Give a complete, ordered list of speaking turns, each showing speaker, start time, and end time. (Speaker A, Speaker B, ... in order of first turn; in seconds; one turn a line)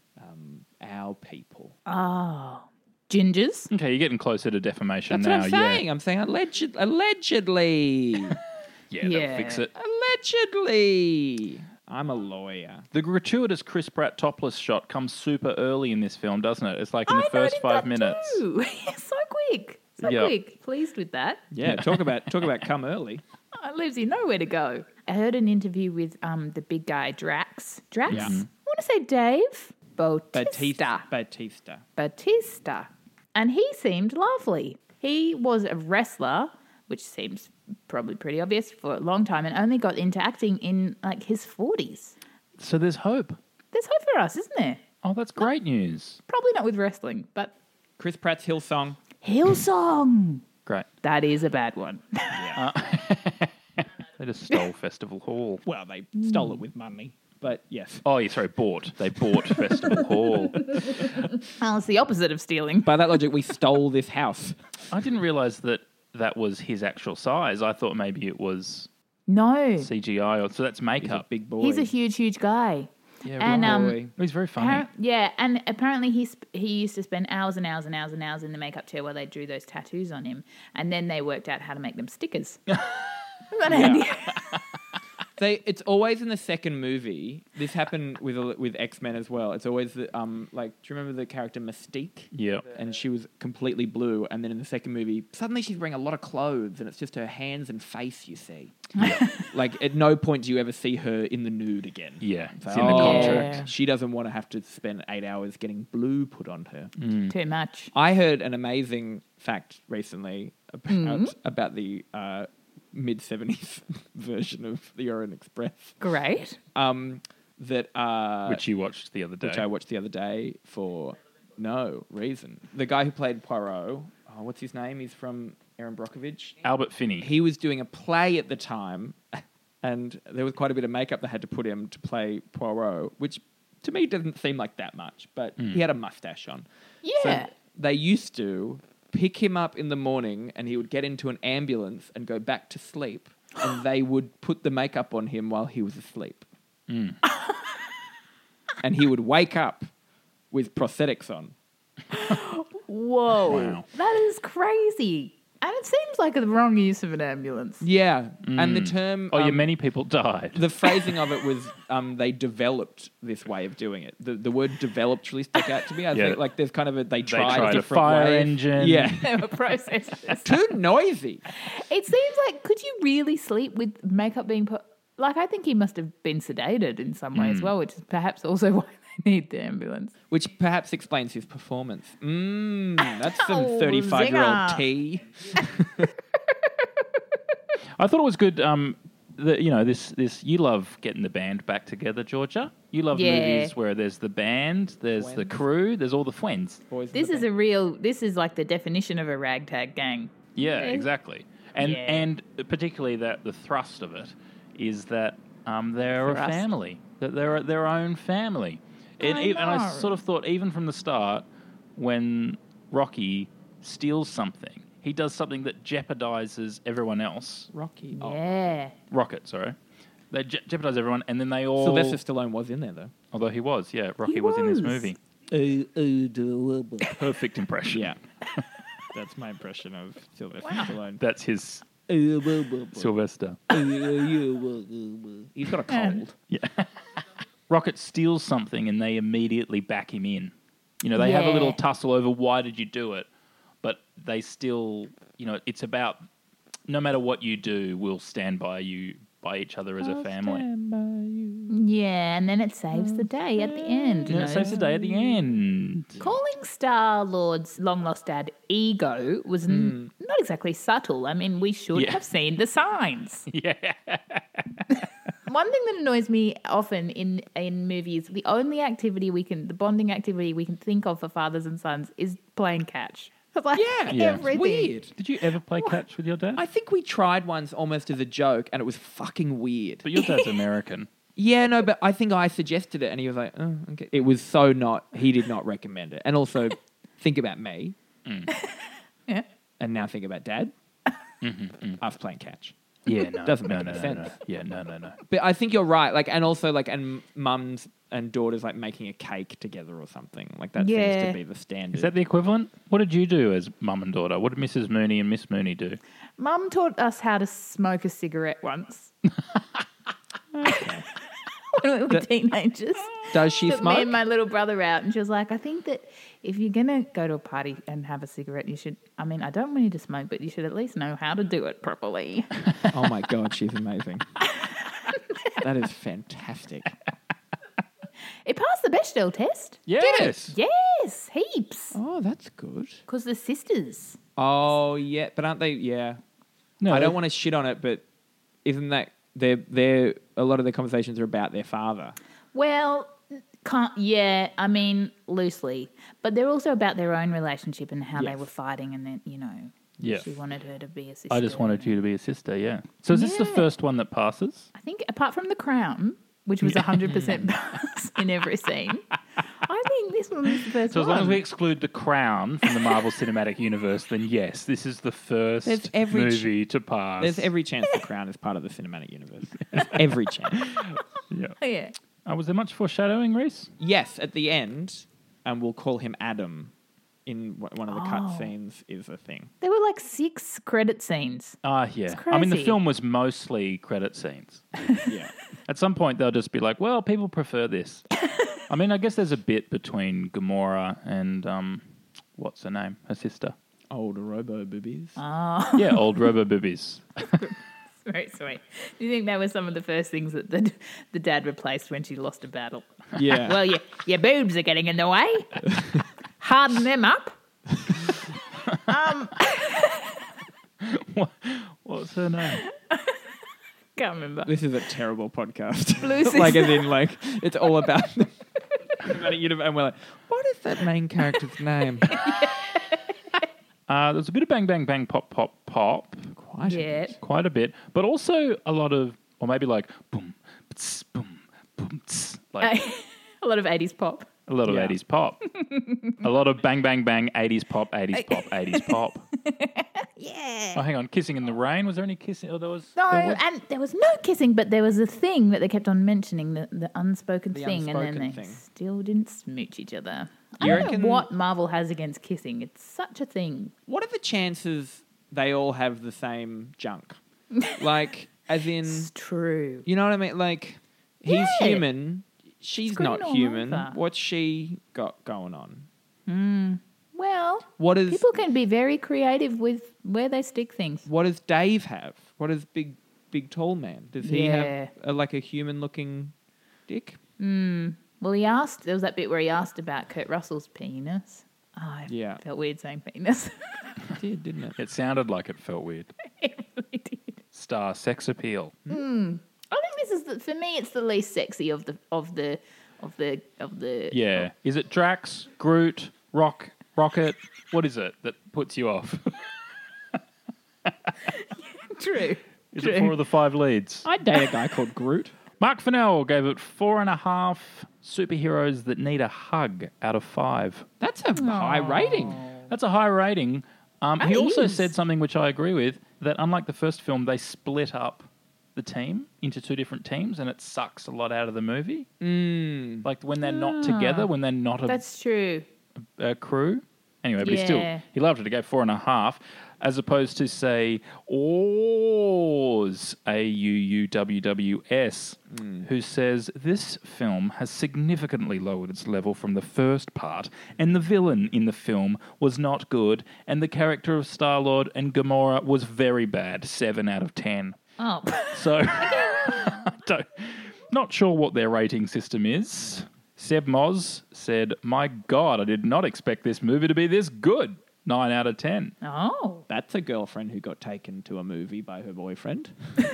Speaker A: 0.2-1.8
Speaker B: 1.9-3.7
Speaker C: 3.7-5.8
Speaker A: 5.1-8.4
Speaker C: 8.9-9.7
Speaker B: 9.0-9.7
Speaker A: 9.8-12.9
Speaker C: 12.9-18.4
Speaker B: 17.1-21.4
Speaker C: 20.0-20.3
Speaker A: 21.5-23.2
Speaker C: 21.6-22.1
Speaker B: 23.6-31.1
Speaker C: 28.1-28.5
Speaker A: 28.1-28.4
Speaker A: 30.3-31.8
Speaker B: 32.0-42.2
Speaker C: 42.6-43.4
Speaker B: 43.7-44.8
Speaker C: 45.0-46.2
Speaker B: 46.3-47.5
Speaker A: 48.0-49.0
Speaker B: 49.2-50.4
Speaker B: 51.0-52.4
Speaker A: 52.3-52.6
Speaker C: 52.5-55.6
Speaker A: 55.7-58.0
Speaker B: 56.2-56.6
Speaker C: 58.0-61.3
Speaker B: 61.6-62.9
Speaker A: 62.9-64.6
Speaker C: 64.9-68.9
Speaker B: 69.3-69.9
Speaker C: 69.8-71.2
Speaker A: 71.0-71.9
Speaker B: 71.6-74.0
Speaker C: 73.2-74.9
Speaker A: 73.4-74.1
Speaker B: 74.6-82.8
Speaker B: 83.5-84.6
Speaker A: 83.7-84.0
Speaker A: 85.4-106.9
Speaker C: 92.3-92.7
Speaker B: 99.0-99.4
Speaker C: 99.0-99.4
Speaker C: 102.2-103.7
Speaker B: 102.8-103.7
Speaker C: 107.0-107.3
Speaker B: 107.3-107.9
Speaker A: 107.9-116.0
Speaker B: 110.9-111.3
Speaker B: 116.0-116.6
Speaker A: 116.8-118.6
Speaker C: 118.5-119.7
Speaker A: 119.4-126.6
Speaker C: 126.6-127.3
Speaker A: 127.2-136.7
Speaker B: 137.0-137.5
Speaker A: 137.2-146.5
Speaker C: 146.9-147.2
Speaker A: 148.8-149.9
Speaker A: 150.5-151.5
Speaker B: 152.1-157.8
Speaker C: 153.5-153.9
Speaker A: 153.5-153.8
Speaker A: 157.8-159.7
Speaker C: 158.4-160.6
Speaker A: 160.5-169.4
Speaker C: 166.1-166.4
Speaker C: 167.2-169.1
Speaker B: 167.6-167.8
Speaker B: 169.2-170.5
Speaker A: 170.4-171.4
Speaker B: 171.6-180.1
Speaker C: 177.3-177.7
Speaker A: 180.3-186.1
Speaker B: 183.3-184.8
Speaker C: 188.0-196.8
Speaker B: 193.1-193.7
Speaker A: 195.2-195.6
Speaker A: 196.9-197.5
Speaker B: 197.1-201.1
Speaker C: 200.6-217.7
Speaker B: 201.8-202.3
Speaker B: 206.2-206.7
Speaker B: 209.2-210.2
Speaker A: 217.7-218.4
Speaker B: 218.2-218.9
Speaker C: 219.1-219.8
Speaker C: 220.3-222.2
Speaker A: 221.8-223.2
Speaker C: 223.3-225.2
Speaker B: 224.2-225.1
Speaker A: 225.5-227.1
Speaker C: 227.1-228.6
Speaker A: 227.9-228.2
Speaker A: 229.1-231.2
Speaker C: 231.2-231.9
Speaker A: 232.1-233.1
Speaker C: 232.9-233.6
Speaker A: 233.7-236.4
Speaker B: 235.9-236.2
Speaker C: 236.5-236.9
Speaker C: 237.7-243.3
Speaker B: 241.2-241.8
Speaker C: 243.8-246.2
Speaker C: 246.9-250.7
Speaker A: 250.0-251.7
Speaker B: 251.7-254.7
Speaker A: 252.9-255.5
Speaker C: 254.3-256.2
Speaker B: 256.2-263.5
Speaker A: 259.7-260.1
Speaker C: 261.9-262.2
Speaker C: 263.5-264.6
Speaker B: 265.5-274.9
Speaker A: 273.7-275.1
Speaker C: 274.1-274.5
Speaker C: 275.1-276.6
Speaker A: 276.6-280.1
Speaker C: 280.0-281.1
Speaker B: 280.2-280.5
Speaker A: 281.4-288.0
Speaker C: 288.3-288.5
Speaker B: 288.5-289.4
Speaker A: 289.8-290.7
Speaker C: 291.4-292.0
Speaker A: 292.0-292.8
Speaker C: 293.1-295.2
Speaker A: 293.4-294.4
Speaker A: 295.3-302.1
Speaker B: 300.8-301.4
Speaker C: 301.9-306.0
Speaker B: 306.4-309.1
Speaker A: 310.5-311.1
Speaker B: 311.7-322.5
Speaker A: 313.3-314.2
Speaker A: 322.9-324.3
Speaker A: 325.6-327.0
Speaker B: 328.5-332.0
Speaker C: 329.9-330.6
Speaker A: 330.0-330.3
Speaker A: 331.9-333.0
Speaker B: 333.1-334.2
Speaker A: 334.4-336.2
Speaker C: 336.8-337.2
Speaker A: 336.9-338.0
Speaker A: 338.6-342.2
Speaker B: 342.5-352.0
Speaker A: 348.2-348.4
Speaker C: 350.0-350.4
Speaker C: 351.3-354.7
Speaker B: 353.1-353.7
Speaker B: 354.8-359.1
Speaker C: 356.6-357.3
Speaker A: 357.1-357.5
Speaker B: 359.6-361.4
Speaker C: 360.9-367.5
Speaker A: 365.6-366.5
Speaker A: 367.2-370.7
Speaker C: 370.8-371.6
Speaker B: 371.6-371.9
Speaker C: 372.2-373.7
Speaker A: 373.8-376.7
Speaker A: 377.3-379.5
Speaker B: 377.9-378.5
Speaker B: 379.6-381.6
Speaker C: 381.6-384.6
Speaker B: 382.1-382.8
Speaker A: 385.1-385.3
Speaker C: 385.7-388.0
Speaker C: 388.7-391.8
Speaker C: 392.4-393.6
Speaker A: 393.9-395.2
Speaker B: 395.2-396.1
Speaker C: 395.8-397.5
Speaker B: 397.3-402.9
Speaker A: 403.2-403.6
Speaker B: 403.4-405.6
Speaker A: 405.7-406.1
Speaker B: 406.4-407.4
Speaker B: 408.9-410.1
Speaker C: 410.8-412.6
Speaker B: 412.5-413.2
Speaker B: 414.0-414.5
Speaker A: 414.5-418.4
Speaker B: 416.0-416.9
Speaker A: 419.0-422.2
Speaker B: 422.1-423.1
Speaker C: 423.9-426.3
Speaker A: 426.4-427.2
Speaker B: 426.6-427.1
Speaker C: 427.2-432.7
Speaker B: 432.6-434.3
Speaker C: 434.5-435.4
Speaker A: 434.7-435.0
Speaker B: 435.6-436.2
Speaker C: 436.2-439.2
Speaker B: 438.1-440.9
Speaker C: 440.8-443.4
Speaker B: 443.0-453.7
Speaker A: 447.5-448.6
Speaker C: 450.6-450.9
Speaker A: 450.6-451.3
Speaker A: 453.9-457.2
Speaker A: 457.7-459.1
Speaker B: 458.8-459.9
Speaker A: 459.9-465.9
Speaker B: 461.3-461.9
Speaker B: 462.9-464.0
Speaker B: 466.3-471.1
Speaker A: 467.8-468.3
Speaker A: 471.1-476.3
Speaker B: 474.2-474.9
Speaker A: 476.9-477.2
Speaker B: 477.4-483.9
Speaker A: 482.1-482.4
Speaker A: 484.2-484.8
Speaker C: 484.8-486.1
Speaker B: 486.4-487.4
Speaker C: 487.5-488.8
Speaker B: 488.9-494.5
Speaker C: 494.1-499.3
Speaker C: 500.9-501.1
Speaker B: 501.8-503.2
Speaker C: 502.7-504.1
Speaker A: 504.1-505.3
Speaker C: 505.6-510.9
Speaker A: 511.0-512.4
Speaker B: 511.4-512.7
Speaker C: 512.7-522.1
Speaker B: 514.2-514.9
Speaker A: 522.2-523.1
Speaker C: 523.0-525.0
Speaker B: 523.4-524.3
Speaker B: 524.9-525.6
Speaker C: 526.2-547.8
Speaker B: 527.4-528.0
Speaker A: 535.5-535.9
Speaker B: 548.0-549.7
Speaker C: 548.5-559.0
Speaker B: 559.0-559.6
Speaker A: 559.7-562.8